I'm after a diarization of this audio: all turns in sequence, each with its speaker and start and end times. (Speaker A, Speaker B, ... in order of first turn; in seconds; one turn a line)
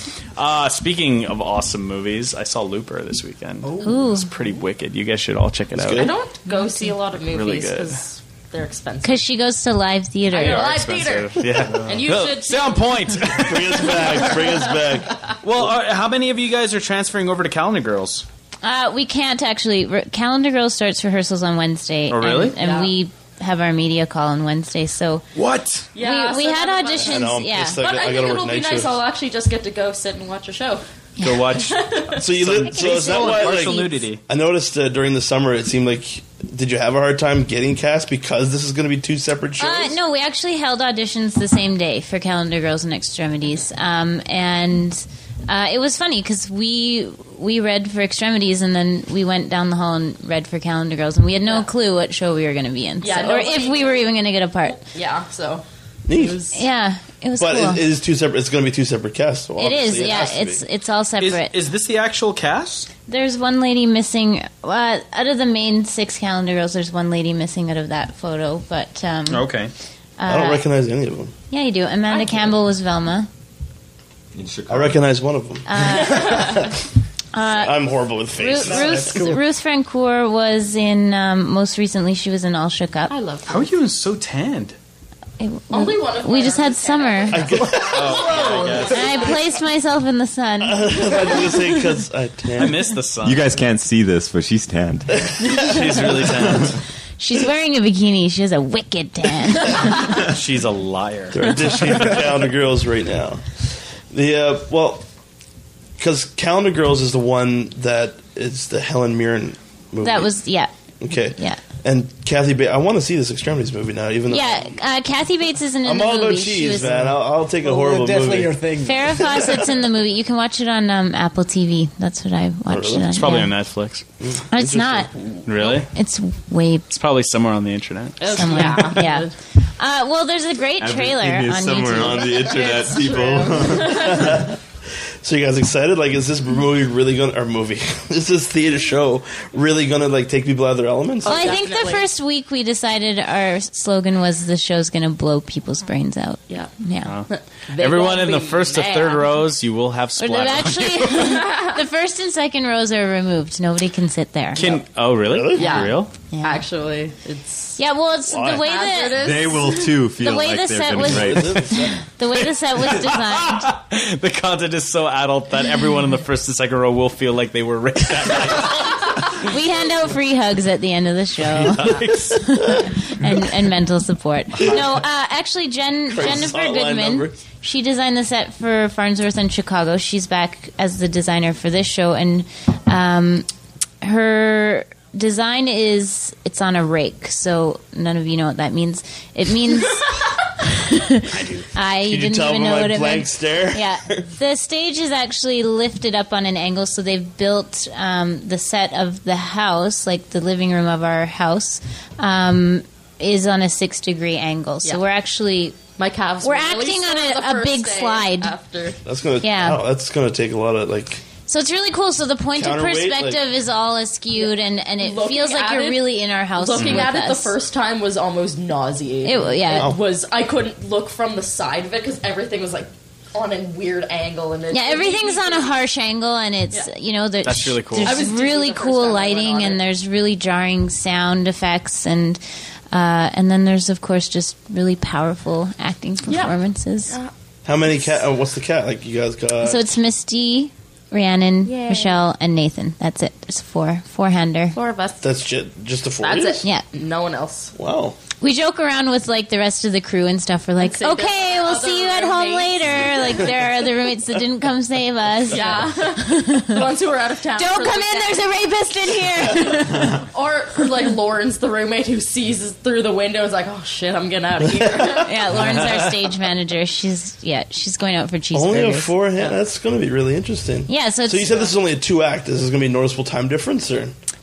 Speaker A: 0.3-6.1
Speaker B: 3.6-4.0
Speaker C: 3.8-4.3
Speaker D: 5.7-6.1
Speaker E: 5.9-9.2
Speaker C: 6.5-6.9
Speaker A: 7.2-8.0
Speaker C: 9.0-10.7
Speaker E: 10.3-13.0
Speaker A: 10.3-14.5
Speaker D: 13.3-15.7
Speaker A: 15.4-18.2
Speaker C: 18.6-25.2
Speaker A: 22.1-22.6
Speaker E: 22.6-22.9
Speaker A: 25.3-25.9
Speaker E: 25.9-30.8
Speaker C: 26.0-27.8
Speaker D: 27.0-29.0
Speaker C: 31.2-31.5
Speaker A: 31.2-34.2
Speaker E: 31.4-32.2
Speaker D: 32.2-40.0
Speaker C: 32.7-34.0
Speaker C: 39.6-54.8
Speaker E: 53.0-54.0
Speaker E: 54.8-56.6
Speaker D: 56.1-56.4
Speaker C: 56.5-57.8
Speaker D: 57.4-60.6
Speaker C: 59.6-61.5
Speaker A: 61.2-62.9
Speaker C: 63.1-69.5
Speaker A: 69.3-69.7
Speaker C: 70.2-70.6
Speaker D: 70.3-71.3
Speaker C: 71.5-73.3
Speaker E: 72.1-72.5
Speaker F: 74.3-75.0
Speaker D: 74.7-76.7
Speaker C: 75.7-76.5
Speaker E: 76.0-76.7
Speaker C: 77.3-83.1
Speaker D: 77.4-79.2
Speaker B: 78.6-79.4
Speaker E: 83.1-83.6
Speaker A: 83.5-84.8
Speaker C: 85.4-87.5
Speaker E: 85.7-89.4
Speaker D: 87.3-88.5
Speaker B: 87.8-88.8
Speaker A: 87.9-89.3
Speaker C: 88.8-91.5
Speaker D: 90.6-92.9
Speaker A: 92.5-93.5
Speaker F: 93.2-95.3
Speaker D: 95.2-96.2
Speaker A: 95.5-96.8
Speaker C: 97.2-100.2
Speaker A: 99.8-102.2
Speaker D: 101.3-103.4
Speaker D: 104.1-105.0
Speaker D: 106.0-110.3
Speaker C: 110.0-110.7
Speaker D: 111.0-114.8
Speaker C: 111.3-111.6
Speaker C: 114.3-117.1
Speaker D: 115.8-118.6
Speaker B: 116.9-119.3
Speaker C: 118.8-123.5
Speaker D: 119.1-119.7
Speaker D: 122.7-123.1
Speaker A: 123.1-124.0
Speaker D: 124.2-125.5
Speaker C: 124.5-126.8
Speaker A: 125.5-125.9
Speaker A: 126.9-128.8
Speaker E: 128.2-129.3
Speaker C: 128.3-132.3
Speaker F: 130.8-134.2
Speaker D: 131.9-132.4
Speaker E: 132.3-134.5
Speaker D: 133.8-134.6
Speaker D: 135.2-141.6
Speaker E: 141.2-142.1
Speaker C: 141.2-147.1
Speaker A: 147.0-151.4
Speaker E: 147.3-149.4
Speaker C: 150.2-154.6
Speaker E: 151.4-151.8
Speaker A: 154.5-156.1
Speaker D: 154.6-155.9
Speaker E: 155.6-157.8
Speaker C: 156.3-156.6
Speaker C: 157.8-159.3
Speaker D: 158.3-158.7
Speaker E: 158.5-160.0
Speaker F: 159.1-161.7
Speaker C: 160.2-163.7
Speaker D: 161.1-162.0
Speaker A: 162.3-169.5
Speaker C: 169.2-183.5
Speaker A: 171.4-172.4
Speaker D: 172.0-172.9
Speaker D: 176.1-177.4
Speaker C: 184.0-205.8
Speaker B: 191.3-191.7
Speaker D: 192.0-194.3
Speaker E: 206.0-209.0
Speaker C: 206.4-208.5
Speaker D: 209.0-211.2
Speaker C: 209.4-209.8
Speaker C: 211.5-217.5
Speaker D: 212.5-213.4
Speaker E: 214.3-225.7
Speaker C: 219.2-219.9
Speaker C: 224.7-237.2
Speaker A: 227.4-228.3
Speaker E: 228.0-229.8
Speaker E: 236.3-236.6
Speaker D: 237.6-239.8
Speaker C: 239.6-244.8
Speaker E: 241.6-242.2
Speaker E: 244.7-245.3
Speaker D: 245.2-246.6
Speaker E: 246.2-247.7
Speaker D: 247.7-248.2
Speaker C: 248.4-256.9
Speaker E: 250.8-253.5
Speaker E: 255.5-258.5
Speaker C: 257.5-260.2
Speaker E: 259.4-265.7
Speaker D: 264.8-265.2
Speaker C: 265.2-269.1
Speaker A: 265.6-266.0
Speaker D: 268.5-274.1
Speaker C: 270.9-271.7